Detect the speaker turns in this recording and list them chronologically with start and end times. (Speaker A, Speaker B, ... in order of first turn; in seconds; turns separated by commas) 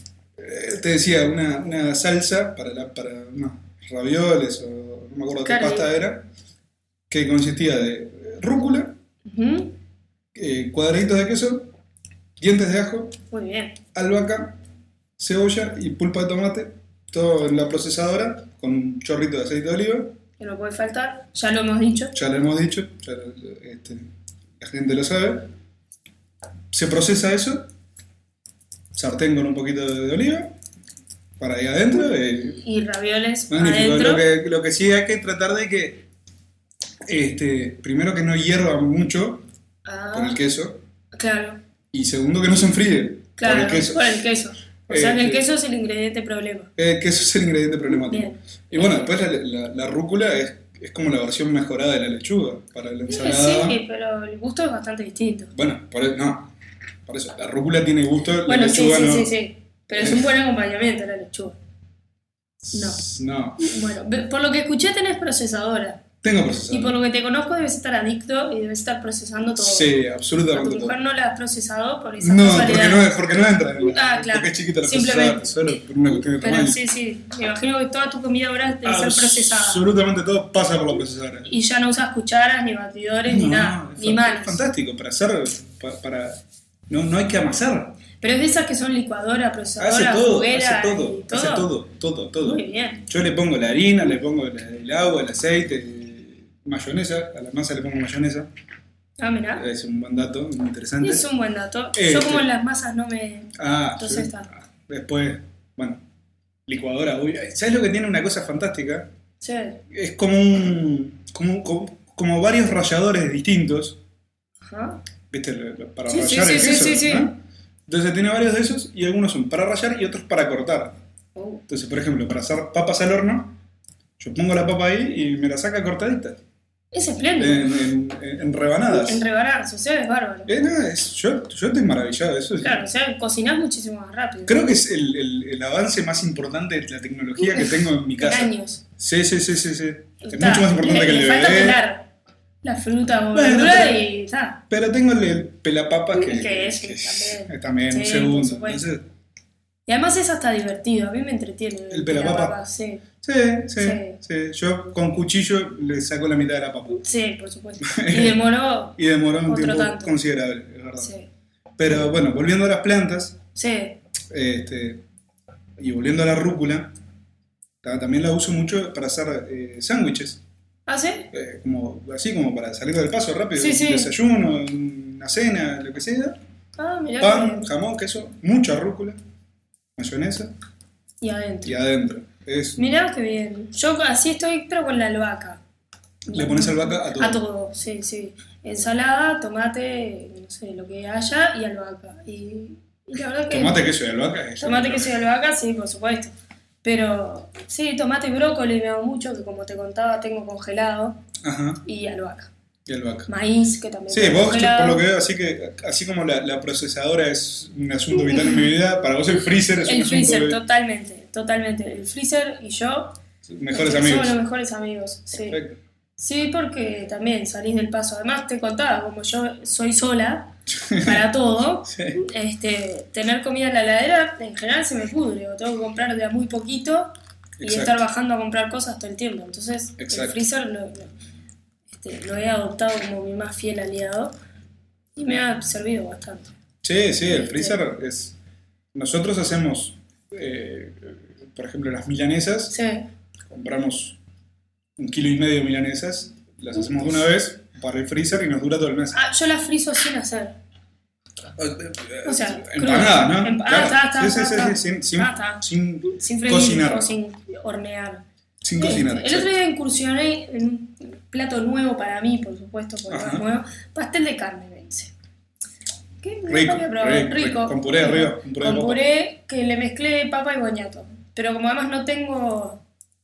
Speaker A: 0.4-6.3, Speaker B: 5.4-5.9, Speaker A: 7.1-8.9, Speaker B: 9.3-9.8, Speaker A: 10.3-11.7, Speaker A: 12.4-13.2, Speaker B: 13.3-13.8, Speaker A: 13.9-14.6, Speaker A: 15.2-20.1, Speaker B: 20.4-22.1, Speaker A: 22.1-24.0, Speaker A: 24.6-25.5, Speaker A: 26.7-27.7, Speaker A: 28.9-30.6, Speaker A: 31.4-32.6, Speaker B: 32.5-34.3, Speaker A: 33.5-36.1, Speaker A: 37.1-39.4, Speaker B: 39.9-40.4, Speaker A: 40.1-40.8, Speaker B: 41.1-41.6, Speaker A: 41.9-44.2, Speaker B: 43.4-46.7, Speaker A: 44.9-45.5, Speaker A: 46.8-53.8, Speaker B: 47.9-49.1, Speaker B: 53.1-55.5, Speaker A: 55.5-56.5, Speaker A: 57.1-59.3, Speaker B: 58.5-61.6, Speaker A: 60.0-60.3, Speaker A: 62.6-63.7, Speaker B: 62.7-63.0, Speaker B: 63.6-66.0, Speaker A: 66.2-67.0, Speaker B: 66.7-69.9, Speaker A: 69.6-71.0, Speaker B: 70.5-73.2, Speaker A: 72.2-76.8, Speaker B: 73.8-75.5, Speaker B: 76.3-79.8, Speaker A: 78.8-81.5, Speaker B: 81.5-84.7, Speaker A: 83.3-88.0, Speaker B: 88.2-91.7, Speaker A: 89.8-98.5, Speaker B: 92.5-93.0, Speaker B: 99.2-99.7, Speaker A: 99.6-101.3, Speaker B: 101.0-104.5, Speaker A: 102.0-102.5, Speaker A: 103.6-106.0, Speaker A: 106.7-109.1, Speaker B: 109.4-109.8, Speaker A: 109.9-114.0, Speaker B: 114.7-115.0, Speaker A: 115.3-117.3, Speaker B: 116.1-117.3, Speaker A: 117.9-121.0, Speaker B: 121.3-121.6, Speaker A: 121.7-123.5, Speaker A: 124.2-126.4, Speaker B: 126.9-127.7, Speaker A: 127.4-129.2, Speaker B: 128.9-130.5, Speaker A: 130.5-132.8, Speaker B: 132.6-134.6, Speaker A: 134.5-141.8, Speaker B: 137.4-138.8, Speaker B: 140.2-142.1, Speaker B: 142.6-144.6, Speaker A: 143.3-144.1, Speaker A: 144.7-149.1, Speaker B: 146.1-148.8, Speaker B: 149.9-153.0, Speaker A: 151.9-152.6, Speaker A: 153.2-157.0, Speaker B: 153.8-154.2, Speaker B: 156.9-160.1, Speaker A: 157.8-158.4, Speaker A: 159.0-161.1, Speaker B: 161.0-161.3, Speaker A: 161.8-163.4, Speaker B: 163.6-164.0, Speaker A: 164.3-165.0, Speaker A: 165.8-166.9, Speaker A: 167.8-170.4, Speaker B: 170.9-171.3, Speaker A: 171.3-176.4, Speaker B: 173.6-174.1, Speaker B: 176.8-177.7, Speaker A: 177.2-179.2, Speaker A: 180.0-180.5, Speaker B: 181.2-181.8, Speaker A: 181.7-182.9, Speaker B: 182.8-185.6, Speaker B: 186.3-193.9, Speaker A: 186.3-187.4, Speaker A: 193.5-195.2, Speaker B: 194.6-201.2, Speaker A: 201.4-201.8, Speaker B: 201.8-202.5, Speaker A: 202.9-203.3, Speaker B: 203.3-205.0, Speaker A: 204.1-210.6, Speaker B: 208.2-208.7, Speaker B: 209.8-213.2, Speaker A: 213.4-214.4, Speaker B: 213.7-215.6, Speaker A: 215.5-215.8, Speaker B: 216.2-231.1, Speaker A: 220.7-221.3, Speaker A: 221.9-222.2, Speaker A: 227.6-228.0, Speaker A: 230.0-230.4, Speaker B: 231.9-234.3, Speaker B: 235.2-236.5, Speaker A: 236.8-238.4, Speaker B: 237.2-237.8, Speaker A: 238.9-242.7, Speaker B: 242.7-243.1, Speaker A: 243.5-244.2, Speaker A: 245.0-249.2, Speaker B: 249.1-250.6, Speaker A: 251.6-257.1, Speaker B: 252.2-258.2, Speaker A: 258.6-259.5, Speaker B: 258.8-265.1, Speaker A: 263.1-263.4, Speaker B: 266.2-272.8, Speaker A: 266.5-269.0